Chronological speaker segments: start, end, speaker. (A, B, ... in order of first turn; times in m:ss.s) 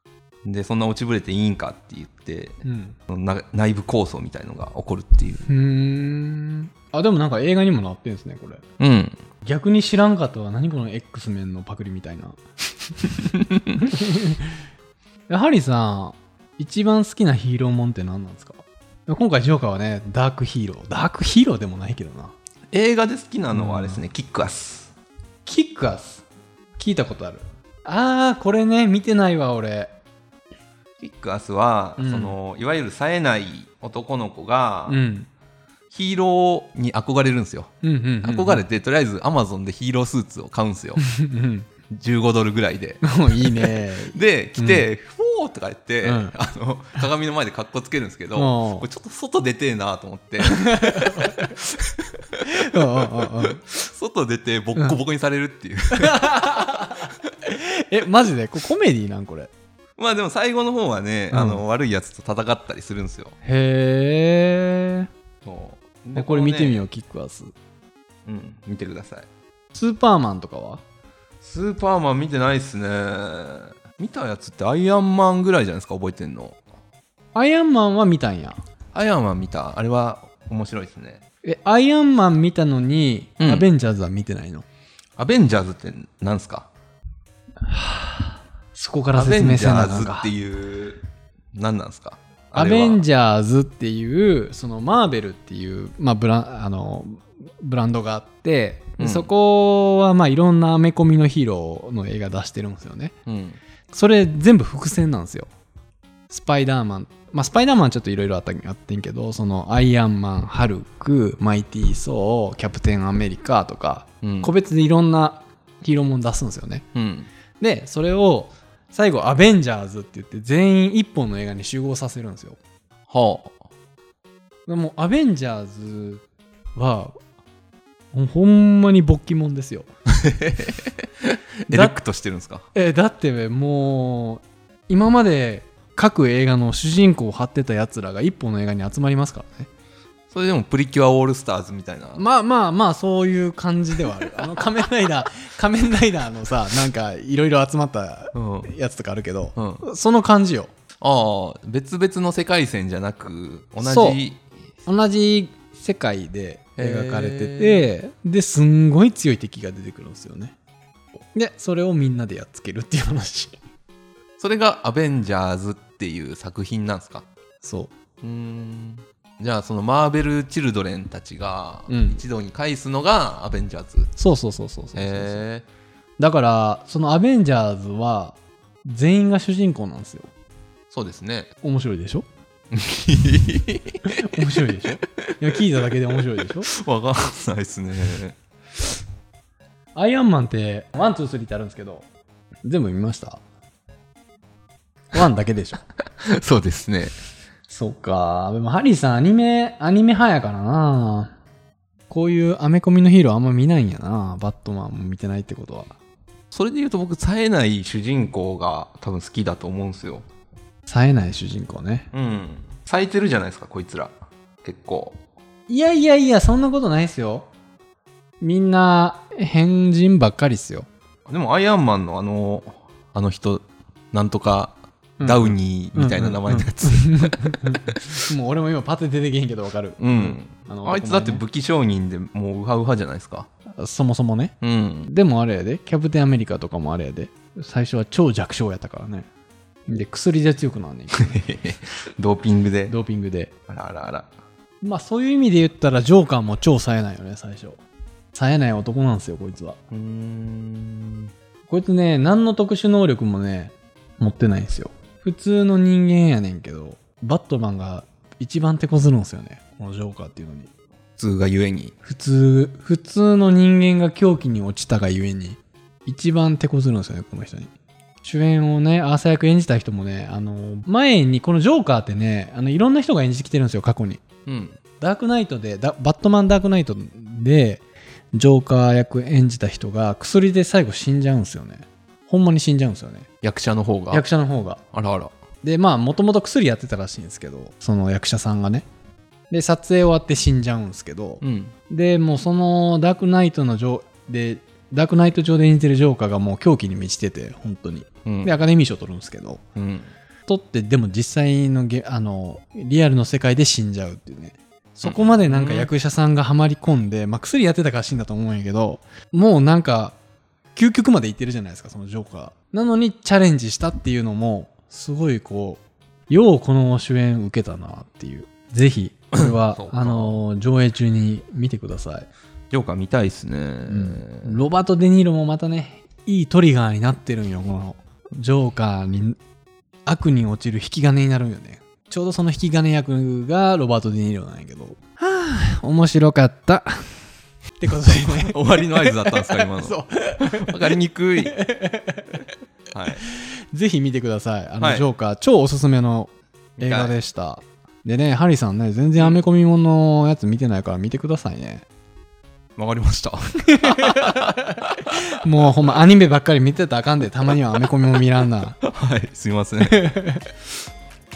0:00.4-0:02.6 A
0:02.6-0:03.0 B
0:03.1-0:05.5 A
0:05.5-0:08.6 B
0:08.8-0:09.2 A
0:09.4-0:12.4 B
0:13.3-0:13.7 A
0:13.8-0:14.5 B
0:15.3-0:22.4 B
0:22.7-0:24.9 A
0:23.5-0:24.0 B
0:25.5-0:26.2 B
0:26.8-0:29.9 B
0:31.0-0:35.0 A
0:32.0-0:32.4 B
0:34.9-0:35.3 B
0:35.9-0:37.7 A
0:37.8-0:38.6 B
0:38.2-0:41.0 A
0:41.0-0:41.7 B
0:41.9-0:57.1 A
0:43.0-0:44.9 B
0:46.0-0:46.4 B
0:48.4-0:48.9 B
0:50.4-0:51.5 B
0:52.5-0:53.6 B
0:55.9-0:59.5 B
1:00.0-1:03.4 A
1:01.3-1:01.6 B
1:03.4-1:05.1 B
1:05.4-1:06.8 A
1:06.2-1:07.5 B
1:08.3-1:09.3 A
1:09.7-1:10.8 B
1:11.4-1:16.6 A
1:17.3-1:18.6 B
1:18.9-1:21.2 A
1:21.4-1:24.6 B
1:25.2-1:26.7 A
1:27.7-1:30.3 B
1:29.1-1:31.0 A
1:31.5-1:33.0 A
1:32.6-1:43.1 B
1:39.0-1:39.3 A
1:43.3-1:43.6 A
1:43.9-1:45.5 B
1:46.3-1:56.8 B
1:54.2-1:54.5 A
1:57.0-1:57.3 A
1:57.6-2:02.6 B
2:03.1-2:03.6 A
2:04.7-2:06.2 B
2:06.8-2:07.2 B
2:08.1-2:09.9 B
2:10.2-2:12.6 A
2:11.7-2:12.0 B
2:12.7-2:19.7 B
2:20.3-2:22.2 A
2:22.2-2:30.7 B
2:28.3-2:28.7 A
2:29.6-2:29.8 A
2:31.0-2:34.4 A
2:33.8-2:34.2 B
2:34.9-2:40.5 B
2:36.8-2:37.9 A
2:41.4-2:43.6 B
2:44.4-2:47.3 A
2:47.6-2:47.9 B
2:48.2-2:54.1 A
2:51.9-2:52.2 B
2:54.2-2:55.4 B
2:55.0-2:55.6 A
2:56.2-3:00.3 B
3:00.9-3:01.5 A
3:01.6-3:02.2 B
3:02.7-3:04.1 A
3:04.1-3:06.7 B
3:06.8-3:08.4 A
3:10.0-3:12.1 B
3:12.6-3:13.4 B
3:15.1-3:15.8 B
3:16.2-3:17.1 A
3:17.7-3:21.3 B
3:22.1-3:25.9 B
3:26.5-3:30.3 A
3:30.9-3:32.1 B
3:32.1-3:35.2 A
3:35.7-3:37.5 B
3:38.4-3:40.9 B
3:41.3-3:48.0 A
3:45.2-3:51.4 B
3:50.0-3:53.5 A
3:53.8-3:59.3 B
3:54.6-3:55.1 A
3:59.9-4:01.4 B
4:01.1-4:03.0 A
4:02.9-4:03.5 B
4:03.7-4:04.3 A
4:04.8-4:07.8 B
4:08.3-4:09.8 B
4:09.9-4:11.3 A
4:11.7-4:20.7 B
4:21.2-4:21.9 A
4:22.0-4:27.7 B
4:28.2-4:34.2 B
4:34.5-4:34.8 A
4:35.0-4:37.8 B
4:38.3-4:43.3 B
4:43.4-4:44.2 A
4:44.1-4:44.8 B
4:44.9-4:45.3 A
4:45.6-4:48.9 B
4:49.5-4:59.6 B
4:51.4-4:51.7 A
4:58.3-4:58.6 A
4:59.8-5:00.1 A
5:00.5-5:10.2 B
5:05.0-5:05.9 A
5:10.8-5:22.3 B
5:19.4-5:20.4 A
5:22.7-5:24.6 A
5:23.9-5:29.4 B
5:30.1-5:37.0 B
5:37.8-5:42.4 B
5:38.0-5:41.6 A
5:42.9-5:43.2 A
5:43.2-5:51.8 B
5:44.8-5:45.1 A
5:46.8-5:47.1 A
5:52.8-5:55.2 A
5:53.8-5:54.6 B
5:55.4-5:58.8 B
5:58.8-6:00.1 A
5:59.8-6:00.5 B